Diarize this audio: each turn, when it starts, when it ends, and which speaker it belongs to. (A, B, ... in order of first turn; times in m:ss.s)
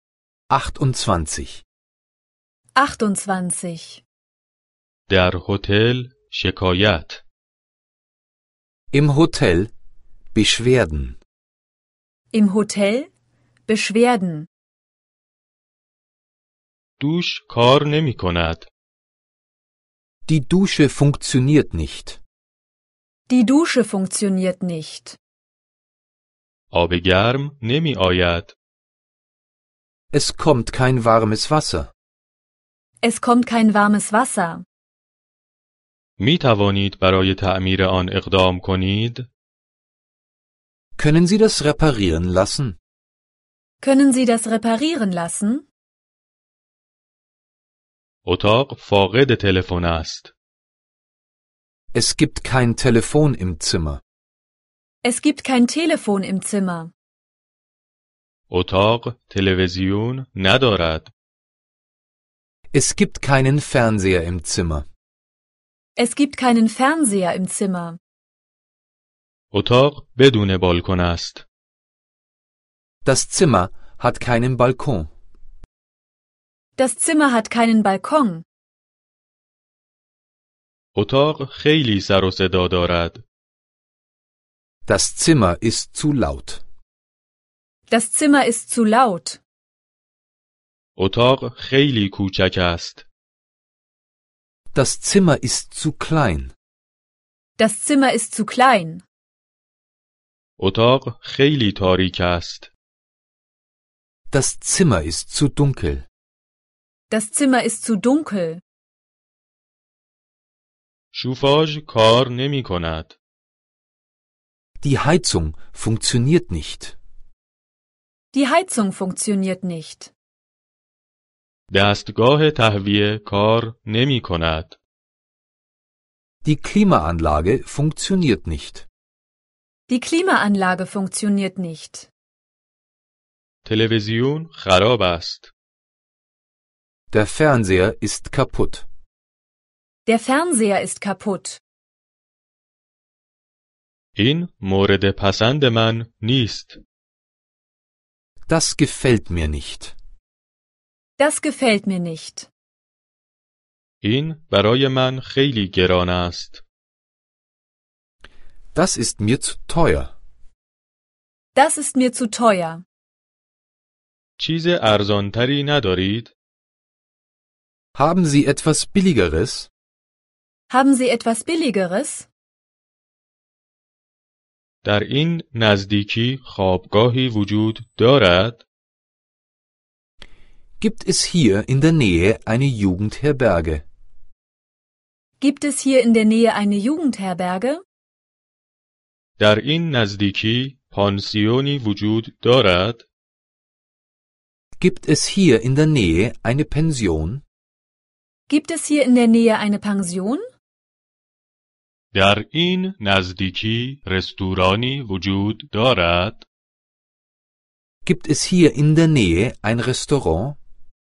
0:00.5-0:01.6 A
0:02.8-0:04.0 B
0:05.1-0:07.2 C
0:08.9-0:09.7 A
0:10.3-0:11.2 A
0:12.3-0:13.1 B
0:13.7-0:14.5 B
0:17.0-0:18.7 C
0:20.3-0:22.2 A
0:23.3-0:25.2 B
0:26.7-0:28.5 C
0:30.1-0:31.9 A
0:33.0-0:34.6 B
0:36.2-0:39.3 C
0:41.0-0:42.8 A
0:43.8-0:45.7 B
0:48.3-0:50.3 C
0:51.9-0:54.0 A
0:55.0-0:56.9 B
0:58.5-1:01.1 C
1:02.7-1:04.9 A
1:06.0-1:08.0 B
1:09.5-1:11.4 C
1:13.0-1:15.1 A
1:16.8-1:18.4 B
1:21.0-1:23.2 C
1:24.9-1:26.6 A
1:27.9-1:29.4 B
1:31.0-1:33.1 C
1:34.7-1:36.5 A
1:37.6-1:39.0 B
1:40.6-1:42.7 C
1:44.3-1:46.1 A
1:47.1-1:48.6 B
1:51.1-1:53.2 C
1:54.8-1:57.0 A
1:58.3-2:00.1 B
2:01.7-2:04.8 C
2:06.4-2:08.9 A
2:09.9-2:12.1 B
2:13.6-2:15.5 C
2:17.1-2:18.8 A
2:20.1-2:21.6 B
2:24.2-2:26.8 C
2:28.5-2:30.0 A
2:31.2-2:32.5 B
2:34.0-2:36.6 C
2:38.7-2:40.1 A
2:41.5-2:42.8 B
2:44.4-2:46.3 C
2:48.0-2:49.7 A
2:50.7-2:52.3 B
2:54.8-2:58.6 C
3:00.8-3:03.8 A
3:05.4-3:07.8 B
3:09.4-3:13.0 C
3:14.8-3:17.4 A
3:18.5-3:20.4 B
3:22.1-3:26.4 C
3:28.0-3:30.6 A